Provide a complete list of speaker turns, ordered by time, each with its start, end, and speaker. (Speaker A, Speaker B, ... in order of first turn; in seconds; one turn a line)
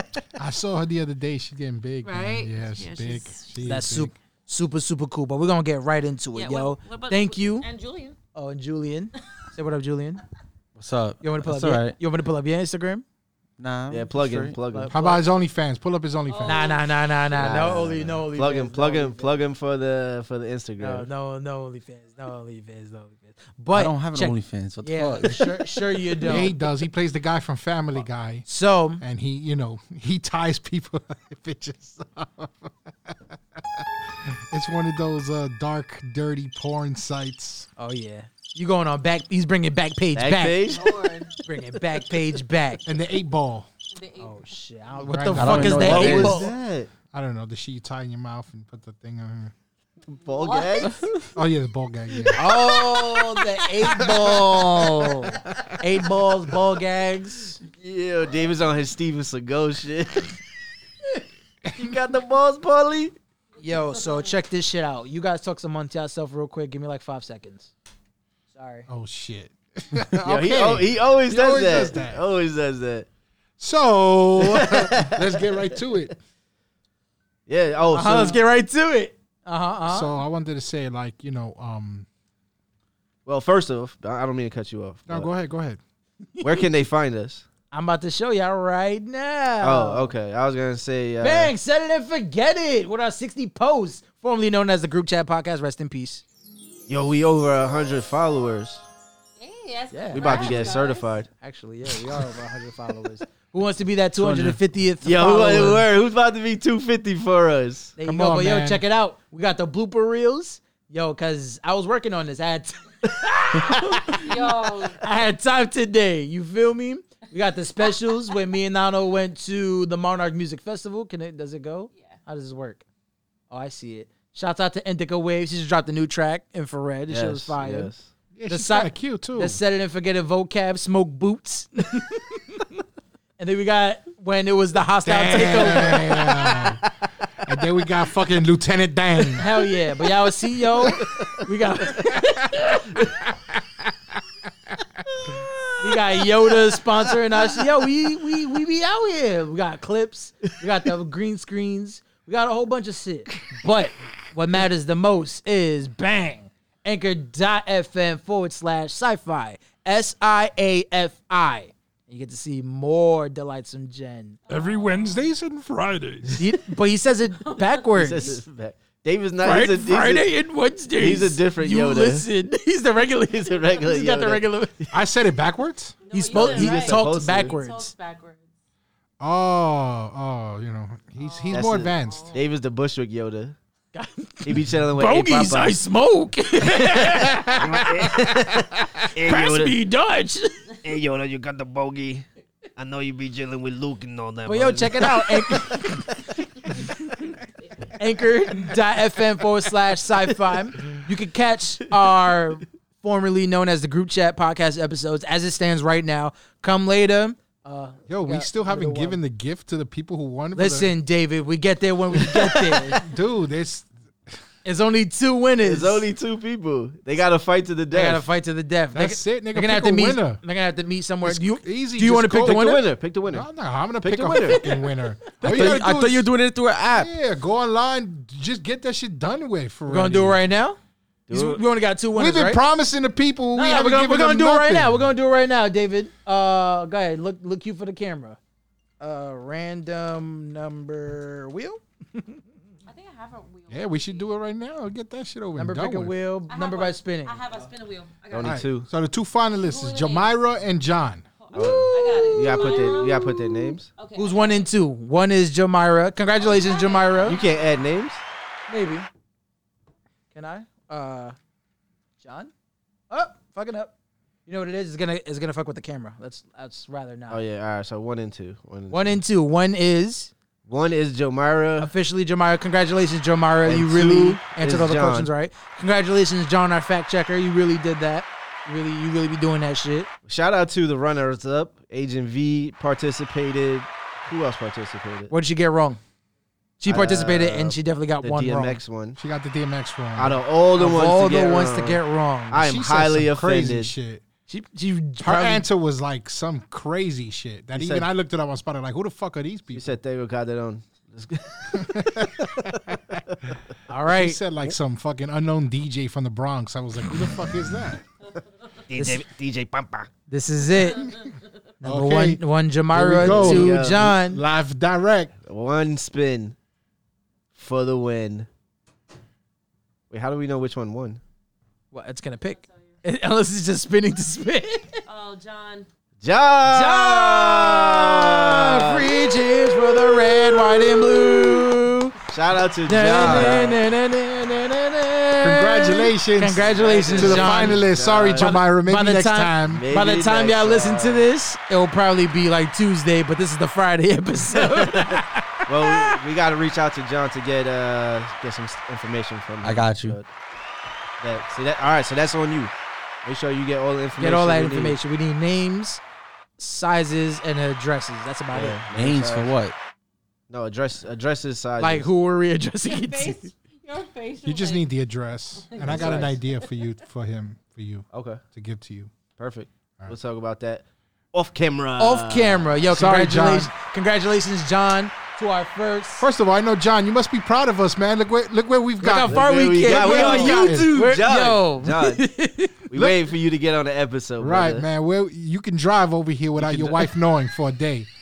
Speaker A: 0.4-4.2
Speaker B: 2.0-3.8
Speaker C: 3.6-7.7
Speaker B: 6.3-8.2
Speaker C: 8.3-10.2
Speaker D: 10.8-12.0
Speaker C: 11.2-13.1
Speaker D: 13.6-14.6
Speaker E: 13.9-14.9
Speaker C: 14.7-15.2
Speaker A: 14.9-16.8
Speaker B: 16.3-17.8
Speaker C: 16.4-19.4
Speaker E: 17.4-21.1
Speaker C: 20.8-26.5
Speaker D: 23.7-25.8
Speaker A: 26.2-28.5
Speaker C: 28.5-29.0
Speaker A: 29.0-37.7
Speaker C: 37.8-40.6
Speaker E: 40.1-41.1
Speaker B: 40.7-41.3
Speaker C: 41.4-42.8
Speaker A: 42.9-43.7
Speaker B: 43.9-44.5
Speaker C: 44.2-46.5
Speaker A: 45.1-46.3
Speaker D: 45.4-46.5
Speaker E: 45.6-46.9
Speaker A: 47.1-49.5
Speaker E: 50.1-51.0
Speaker B: 50.3-51.0
Speaker D: 50.9-51.2
Speaker A: 51.3-52.5
Speaker C: 52.4-57.6
Speaker E: 52.5-53.2
Speaker A: 53.9-54.4
Speaker E: 55.3-55.8
Speaker E: 57.7-60.4
Speaker A: 61.7-62.0
Speaker E: 61.7-63.1
Speaker C: 63.6-67.7
Speaker C: 68.5-68.9
Speaker A: 68.9-72.2
Speaker E: 70.2-73.1
Speaker A: 73.6-76.2
Speaker E: 74.4-75.8
Speaker E: 77.5-78.4
Speaker C: 77.9-80.1
Speaker A: 79.9-82.1
Speaker E: 83.3-85.3
Speaker A: 85.1-85.8
Speaker E: 86.4-87.5
Speaker C: 87.7-90.1
Speaker E: 89.6-91.5
Speaker C: 91.2-96.2
Speaker E: 96.9-98.8
Speaker B: 99.4-101.1
Speaker C: 99.9-100.8
Speaker E: 100.1-101.3
Speaker C: 101.4-105.9
Speaker D: 104.2-104.6
Speaker E: 105.0-108.0
Speaker C: 108.0-122.8
Speaker A: 108.0-108.8
Speaker D: 113.6-113.9
Speaker B: 114.1-115.0
Speaker C: 123.5-127.9
Speaker E: 127.1-128.1
Speaker A: 128.3-129.6
Speaker C: 128.5-132.6
Speaker C: 133.4-136.8
Speaker A: 135.1-136.9
Speaker A: 137.4-139.6
Speaker C: 139.4-142.7
Speaker C: 145.8-164.4
Speaker A: 164.5-166.5
Speaker B: 164.5-164.9
Speaker C: 166.4-168.4
Speaker B: 167.4-167.8
Speaker E: 167.9-170.3
Speaker C: 169.4-174.8
Speaker E: 171.0-172.3
Speaker E: 173.3-174.9
Speaker A: 174.9-176.0
Speaker B: 176.1-178.4
Speaker C: 176.1-177.9
Speaker E: 176.3-177.6
Speaker A: 179.2-182.3
Speaker B: 181.2-182.4
Speaker E: 181.5-183.6
Speaker C: 183.9-188.4
Speaker E: 184.4-185.8
Speaker E: 186.6-189.8
Speaker C: 189.1-190.8
Speaker E: 190.8-196.3
Speaker C: 194.5-197.2
Speaker C: 198.0-209.2
Speaker A: 208.1-210.9
Speaker C: 210.6-213.0
Speaker A: 212.9-213.9
Speaker C: 214.7-216.1
Speaker E: 215.6-218.2
Speaker C: 217.9-222.8
Speaker A: 218.9-220.4
Speaker A: 221.2-222.8
Speaker E: 222.4-223.5
Speaker A: 223.3-226.3
Speaker E: 224.0-224.8
Speaker E: 225.4-225.8
Speaker D: 225.4-227.1
Speaker A: 226.9-230.4
Speaker C: 229.9-230.8
Speaker E: 231.3-231.6
Speaker C: 231.3-232.6
Speaker A: 232.1-235.1
Speaker C: 233.5-238.4
Speaker C: 239.0-242.4
Speaker B: 242.9-244.3
Speaker A: 243.7-246.1
Speaker C: 245.6-247.4
Speaker B: 246.5-248.6
Speaker E: 248.3-248.9
Speaker A: 248.4-251.2
Speaker B: 249.6-250.3
Speaker B: 251.4-254.7
Speaker E: 251.5-253.9
Speaker C: 252.5-252.9
Speaker C: 254.2-257.4
Speaker B: 256.4-257.7
Speaker E: 257.2-258.2
Speaker C: 258.7-259.1
Speaker C: 260.3-261.4
Speaker C: 262.2-262.5
Speaker C: 263.1-263.9
Speaker C: 264.5-267.4
Speaker E: 267.3-269.2
Speaker C: 268.9-270.3
Speaker E: 270.7-271.9
Speaker C: 271.8-280.1
Speaker E: 273.6-275.3
Speaker E: 280.3-285.3
Speaker C: 285.3-286.0
Speaker C: 286.8-288.8
Speaker E: 286.9-289.2
Speaker A: 289.2-290.4
Speaker E: 290.2-293.9
Speaker C: 290.8-292.6
Speaker A: 292.5-294.2
Speaker C: 294.5-295.7
Speaker A: 295.2-299.9
Speaker E: 297.8-298.1
Speaker E: 299.7-303.6
Speaker A: 301.8-303.2
Speaker C: 303.9-304.4
Speaker A: 304.1-308.1
Speaker E: 308.9-310.1
Speaker C: 308.9-309.2
Speaker C: 310.3-311.2
Speaker B: 311.0-311.3
Speaker C: 311.8-314.4
Speaker A: 311.8-315.3
Speaker E: 313.2-314.1
Speaker E: 315.4-316.6
Speaker E: 317.6-318.5
Speaker E: 320.1-321.2
Speaker C: 321.9-325.0
Speaker B: 325.1-325.9
Speaker E: 326.2-329.1
Speaker C: 326.7-332.2
Speaker E: 330.2-331.3
Speaker E: 332.3-333.8
Speaker C: 332.9-337.8
Speaker A: 333.1-333.6
Speaker A: 335.4-339.9
Speaker E: 336.7-338.6
Speaker C: 338.4-346.2
Speaker E: 339.7-341.3
Speaker E: 344.6-350.3
Speaker D: 349.6-350.2
Speaker E: 351.2-352.7
Speaker E: 353.2-355.0
Speaker C: 354.2-356.0
Speaker C: 356.6-358.8
Speaker E: 358.5-359.6
Speaker D: 358.9-359.8
Speaker E: 360.5-362.1
Speaker C: 361.8-363.5
Speaker B: 362.8-364.9
Speaker A: 364.4-369.1
Speaker B: 365.6-366.3
Speaker E: 365.8-366.4
Speaker E: 368.1-368.4
Speaker E: 369.4-372.8
Speaker C: 372.0-376.3
Speaker A: 372.9-373.7
Speaker A: 376.2-380.9
Speaker C: 379.0-382.9
Speaker E: 379.2-382.2
Speaker E: 382.9-384.9
Speaker A: 384.4-388.1
Speaker E: 386.6-387.1